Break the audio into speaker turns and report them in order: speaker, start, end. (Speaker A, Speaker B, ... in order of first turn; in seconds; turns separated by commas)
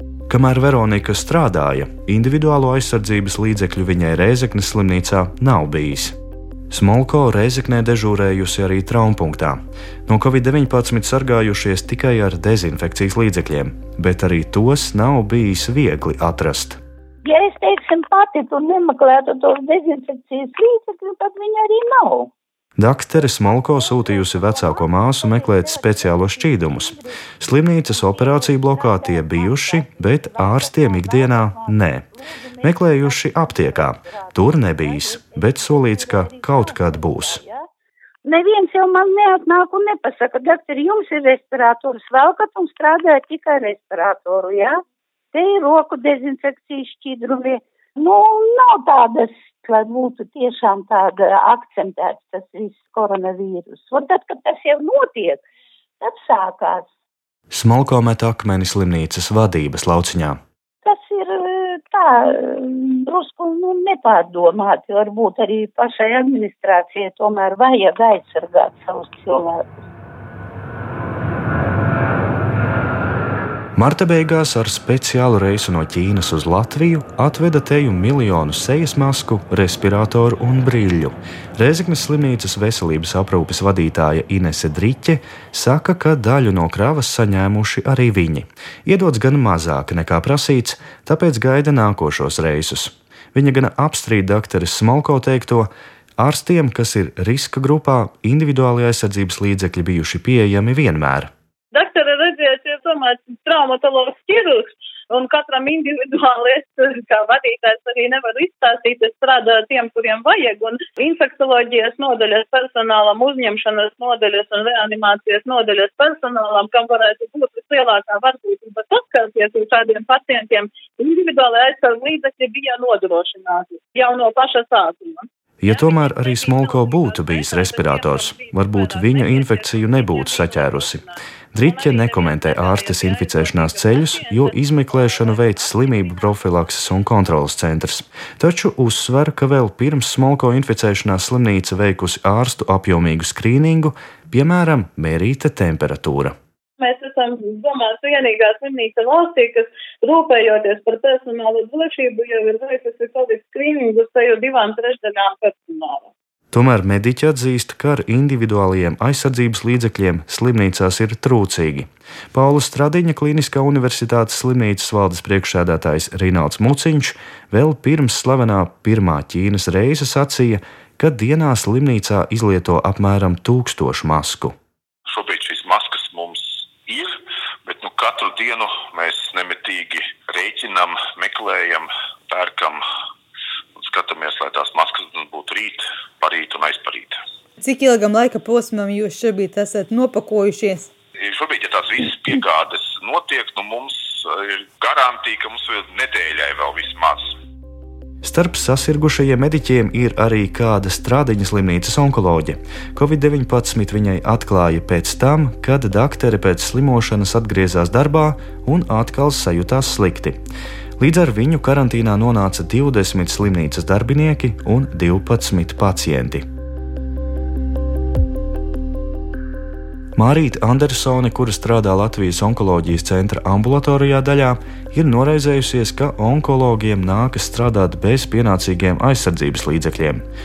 Speaker A: 0.3-6.2, Speaker A: 6.7-16.8, Speaker B: 17.2-22.3, Speaker A: 22.8-32.0, Speaker B: 23.2-27.2, Speaker B: 27.9-37.7, Speaker A: 32.6-37.4, Speaker B: 38.2-44.8, Speaker B: 45.3-55.4, Speaker B: 56.0-56.9, Speaker A: 57.5-60.4, Speaker B: 60.8-69.8, Speaker A: 73.8-101.3, Speaker C: 101.7-136.5, Speaker A: 125.6-131.0, Speaker A: 131.5-146.3, Speaker C: 146.8-156.1, Speaker A: 156.5-174.5, Speaker D: 175.1-182.8, Speaker D: 183.8-187.2, Speaker E: 187.6-190.9, Speaker D: 191.2-197.3, Speaker A: 198.2-210.4, Speaker A: 211.0-216.4, Speaker A: 220.1-230.2